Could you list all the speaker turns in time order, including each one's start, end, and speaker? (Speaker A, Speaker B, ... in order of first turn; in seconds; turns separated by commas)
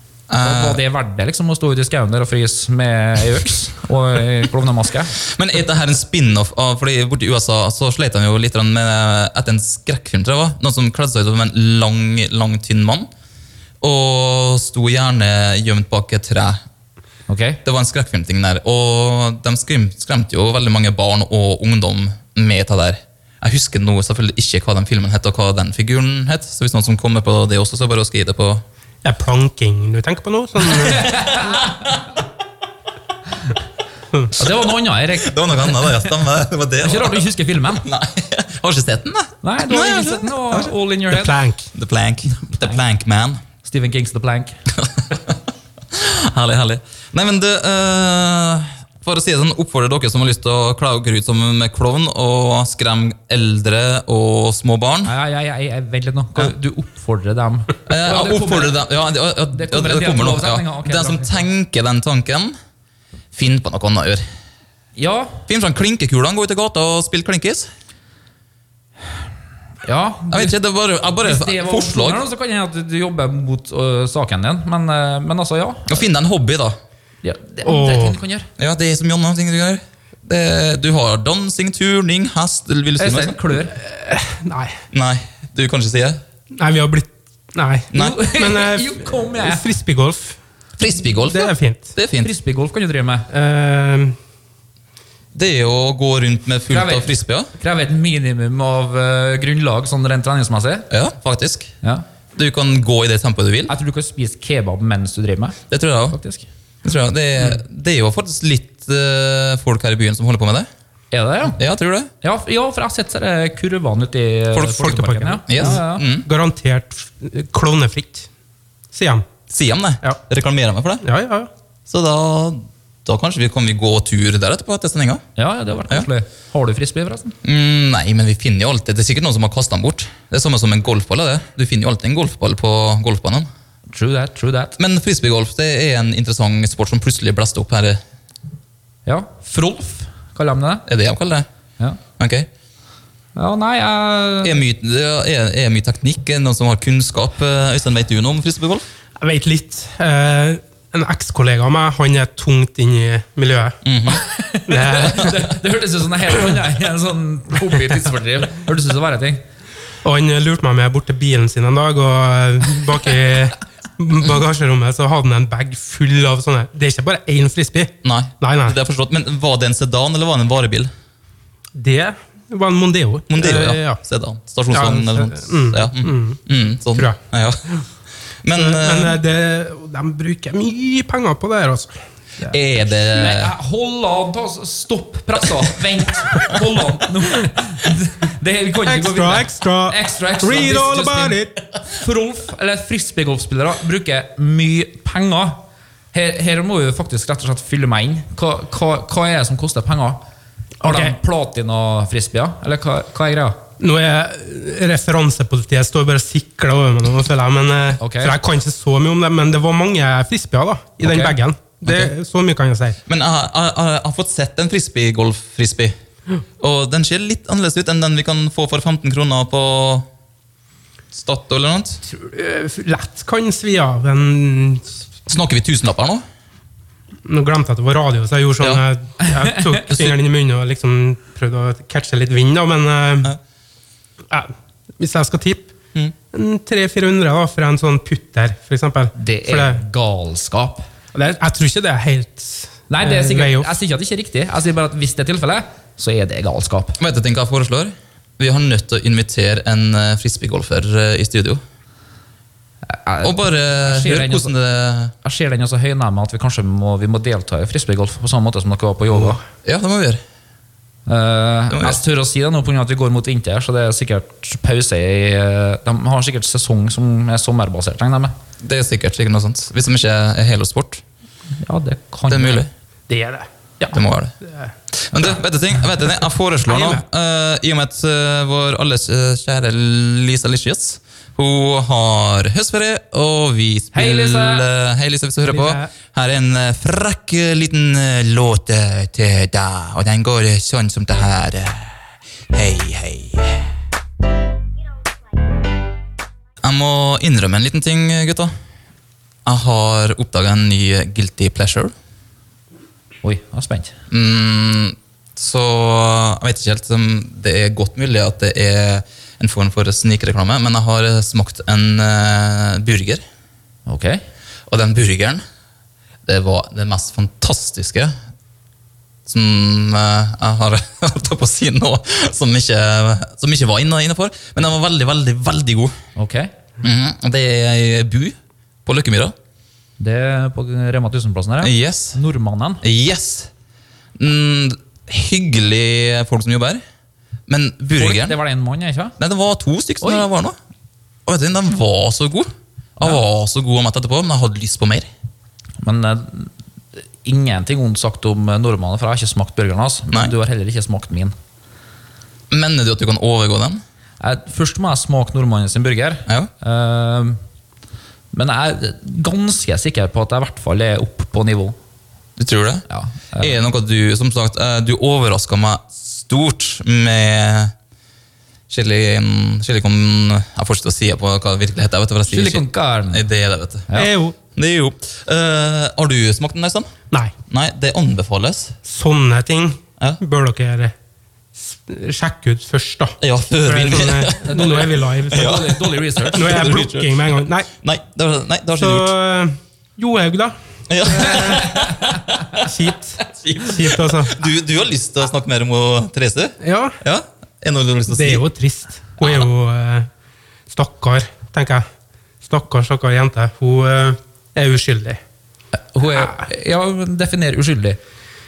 Speaker A: 0.3-0.8, Speaker B: 0.4-5.1, Speaker A: 5.2-13.1, Speaker A: 13.8-16.6, Speaker B: 17.3-17.6, Speaker A: 17.6-28.6, Speaker C: 29.0-31.1, Speaker A: 30.9-32.0, Speaker B: 31.0-31.7, Speaker B: 34.3-36.0, Speaker A: 35.2-37.2, Speaker B: 36.8-37.8, Speaker A: 37.8-40.7, Speaker B: 39.4-41.3, Speaker C: 41.1-41.7, Speaker A: 41.7-43.4, Speaker B: 43.6-44.5, Speaker A: 44.7-45.4, Speaker A: 45.9-55.1, Speaker B: 55.0-58.8, Speaker A: 57.9-62.5, Speaker B: 59.5-61.4, Speaker A: 63.3-64.2, Speaker B: 65.0-65.4, Speaker A: 65.5-67.7, Speaker B: 69.8-70.5, Speaker A: 70.3-72.2, Speaker B: 71.2-76.0, Speaker A: 75.9-76.8, Speaker B: 77.2-78.5, Speaker C: 77.6-78.2, Speaker A: 78.6-83.4, Speaker B: 83.0-83.8, Speaker C: 83.7-84.8, Speaker A: 84.9-86.2, Speaker C: 86.5-90.4, Speaker A: 87.9-88.2, Speaker B: 87.9-89.6, Speaker A: 90.8-91.4, Speaker C: 91.2-91.9, Speaker A: 92.0-92.3, Speaker B: 92.1-93.3, Speaker C: 93.3-94.2, Speaker A: 95.3-97.5, Speaker B: 96.7-100.9, Speaker A: 100.9-101.7, Speaker A: 102.3-103.7, Speaker B: 103.7-105.6, Speaker A: 105.7-106.2, Speaker B: 106.1-106.4, Speaker A: 106.8-110.7, Speaker B: 111.1-111.6, Speaker A: 111.6-112.1, Speaker B: 112.2-116.0, Speaker A: 114.5-116.3, Speaker C: 114.8-118.3, Speaker C: 118.9-119.2, Speaker A: 119.5-121.0, Speaker C: 121.0-121.5, Speaker A: 121.9-125.2, Speaker B: 125.3-127.3, Speaker A: 127.4-133.5, Speaker B: 133.9-134.8, Speaker A: 134.8-138.0, Speaker B: 139.1-140.8, Speaker A: 140.9-141.5, Speaker A: 142.2-142.5, Speaker B: 143.3-144.6, Speaker A: 144.4-148.8, Speaker C: 149.2-153.8, Speaker A: 153.8-154.2, Speaker B: 154.2-159.4, Speaker C: 154.7-155.4, Speaker C: 160.0-168.8, Speaker A: 168.0-170.9, Speaker C: 171.7-174.0, Speaker A: 173.3-177.6, Speaker C: 174.7-176.4, Speaker A: 178.4-179.2, Speaker C: 178.5-182.5, Speaker A: 182.5-183.5, Speaker B: 183.1-191.4, Speaker C: 188.8-191.6, Speaker B: 191.9-195.6, Speaker B: 196.1-200.2, Speaker C: 200.8-201.1, Speaker B: 200.8-203.6, Speaker C: 203.8-213.0, Speaker B: 208.0-208.3, Speaker B: 211.0-211.4, Speaker A: 213.1-215.9, Speaker A: 216.6-220.1, Speaker A: 221.1-222.0, Speaker C: 222.1-224.9, Speaker A: 225.3-226.2, Speaker C: 227.2-233.3, Speaker B: 229.4-229.8, Speaker C: 234.3-235.7, Speaker C: 236.3-239.8, Speaker B: 239.2-240.8, Speaker C: 241.1-243.7, Speaker B: 242.9-247.0, Speaker A: 247.0-251.6, Speaker B: 252.9-254.5, Speaker A: 253.2-255.1, Speaker B: 255.2-259.4, Speaker A: 259.6-260.2, Speaker B: 261.1-268.3, Speaker A: 261.7-262.0, Speaker A: 268.6-271.0, Speaker B: 271.6-272.6, Speaker A: 272.3-272.7, Speaker C: 273.1-274.7, Speaker A: 273.9-274.4, Speaker A: 274.9-291.9, Speaker C: 276.7-277.0, Speaker B: 283.9-284.6, Speaker C: 285.5-285.9, Speaker A: 292.5-293.6, Speaker A: 296.6-298.5, Speaker A: 299.4-301.9, Speaker B: 303.2-303.9, Speaker A: 304.1-313.2, Speaker B: 313.9-314.2, Speaker A: 314.7-315.4, Speaker A: 316.2-318.1, Speaker A: 319.2-325.9, Speaker B: 326.1-326.5, Speaker A: 326.8-329.3, Speaker B: 330.0-332.8, Speaker A: 331.6-332.2, Speaker A: 332.8-333.5, Speaker A: 334.2-336.8, Speaker A: 337.5-338.4, Speaker B: 338.0-339.1, Speaker A: 339.2-340.6, Speaker B: 340.0-340.3, Speaker A: 341.3-345.1, Speaker B: 345.8-346.5, Speaker B: 347.2-351.3, Speaker A: 352.5-353.8, Speaker B: 354.2-357.4, Speaker B: 358.3-361.8, Speaker A: 362.4-362.8, Speaker B: 362.9-363.5, Speaker A: 363.4-367.7, Speaker A: 368.7-373.9, Speaker B: 372.3-373.2, Speaker C: 373.9-374.4, Speaker A: 374.5-376.9, Speaker A: 377.5-378.7, Speaker C: 378.8-380.9, Speaker C: 381.6-385.7, Speaker A: 383.2-389.1, Speaker B: 385.3-386.7, Speaker C: 386.3-387.7, Speaker C: 388.8-390.5, Speaker A: 390.9-392.7, Speaker C: 391.1-391.7, Speaker C: 392.6-394.4, Speaker A: 393.2-398.4, Speaker C: 396.6-397.0, Speaker C: 398.1-400.1, Speaker C: 400.7-401.8, Speaker C: 402.4-405.2, Speaker B: 405.8-408.0